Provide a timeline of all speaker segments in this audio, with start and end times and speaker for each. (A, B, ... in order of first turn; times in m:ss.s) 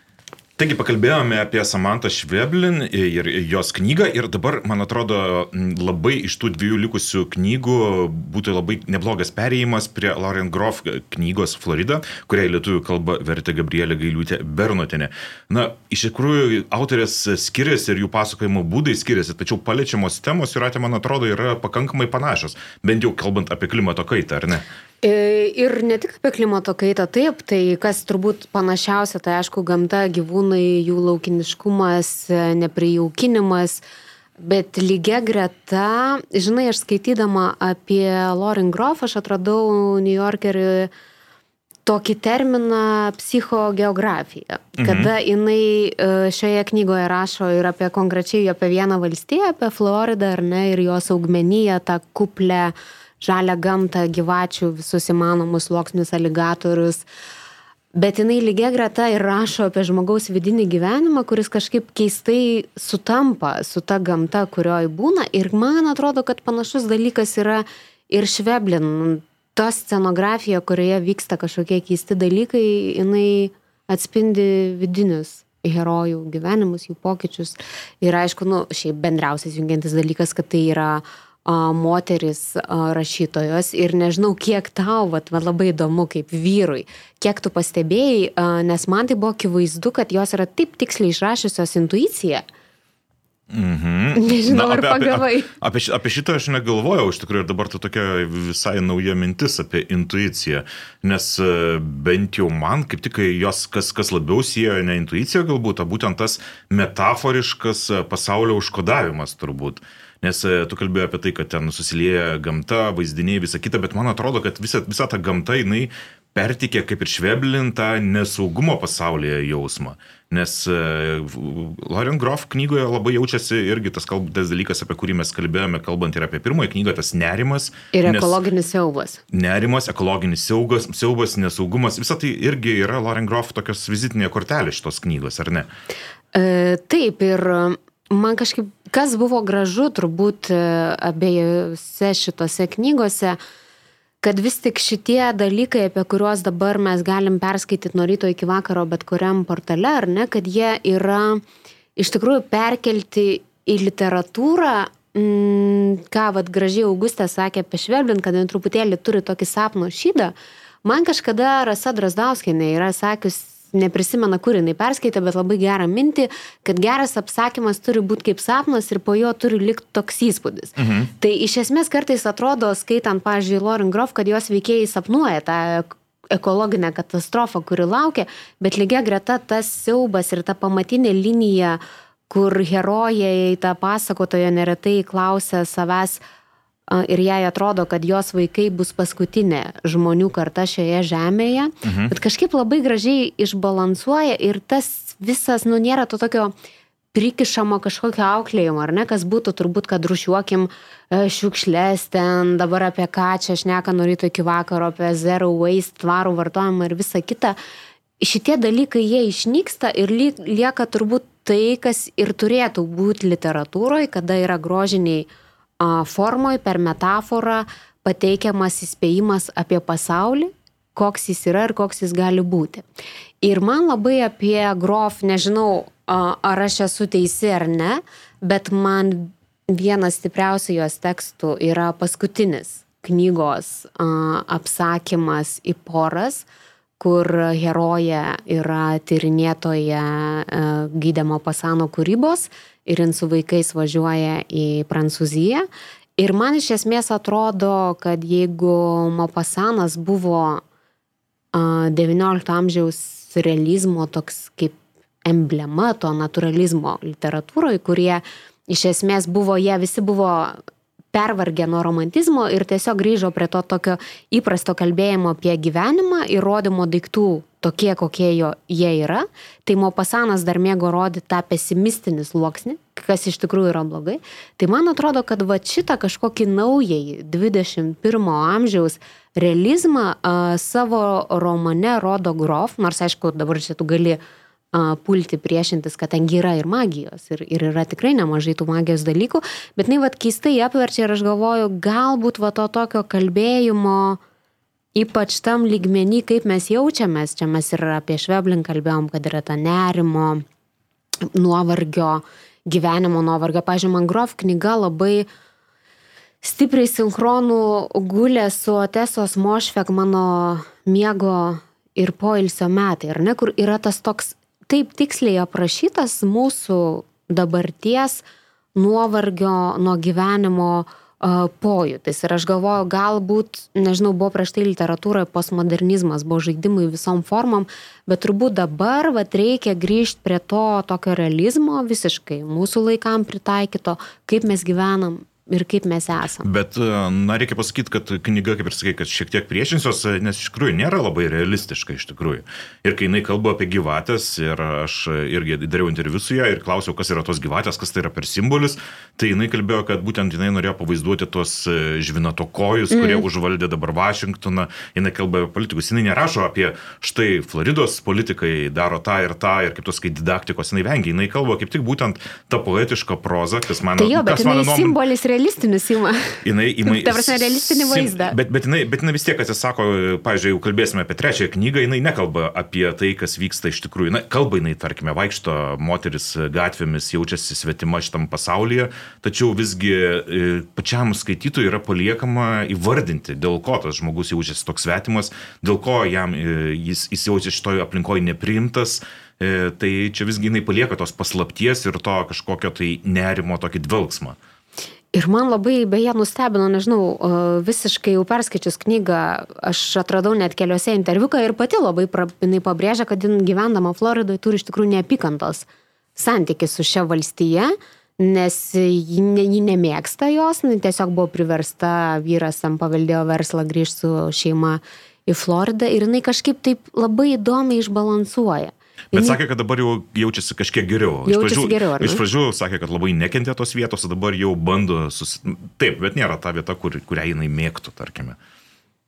0:00.6-0:24.6 A
0:25.0-0:33.8 B
0:34.4-0:40.9 B
0:41.8-0:57.0 B
0:44.8-0:45.1 A
0:57.9-1:32.4 B
1:33.5-2:08.4 A
1:34.2-1:35.5 B
2:07.9-2:09.2 B
2:09.3-2:15.7 A
2:16.3-2:23.4 B
2:24.2-2:31.4 B
2:32.0-3:06.2 B
2:50.8-2:51.1 A
3:06.9-3:16.5 B
3:11.8-3:12.1 A
3:17.1-3:27.6 B
3:28.2-3:35.3 B
3:35.8-3:42.8 B
3:43.4-3:56.5 B
3:57.0-4:05.7 B
4:06.2-4:10.6 B
4:11.5-4:20.6 B
4:21.1-4:44.2 B
4:44.7-4:54.2 B
4:54.9-5:00.4 B
5:01.3-5:05.3 B
5:06.4-5:18.2 B
5:18.8-5:36.5 B
5:36.4-6:05.0 A
5:52.9-5:53.2 B
6:04.0-6:08.4 B
6:06.4-6:34.4 A
6:35.1-6:59.4 B
6:59.1-7:08.4 A
7:01.2-7:02.2 B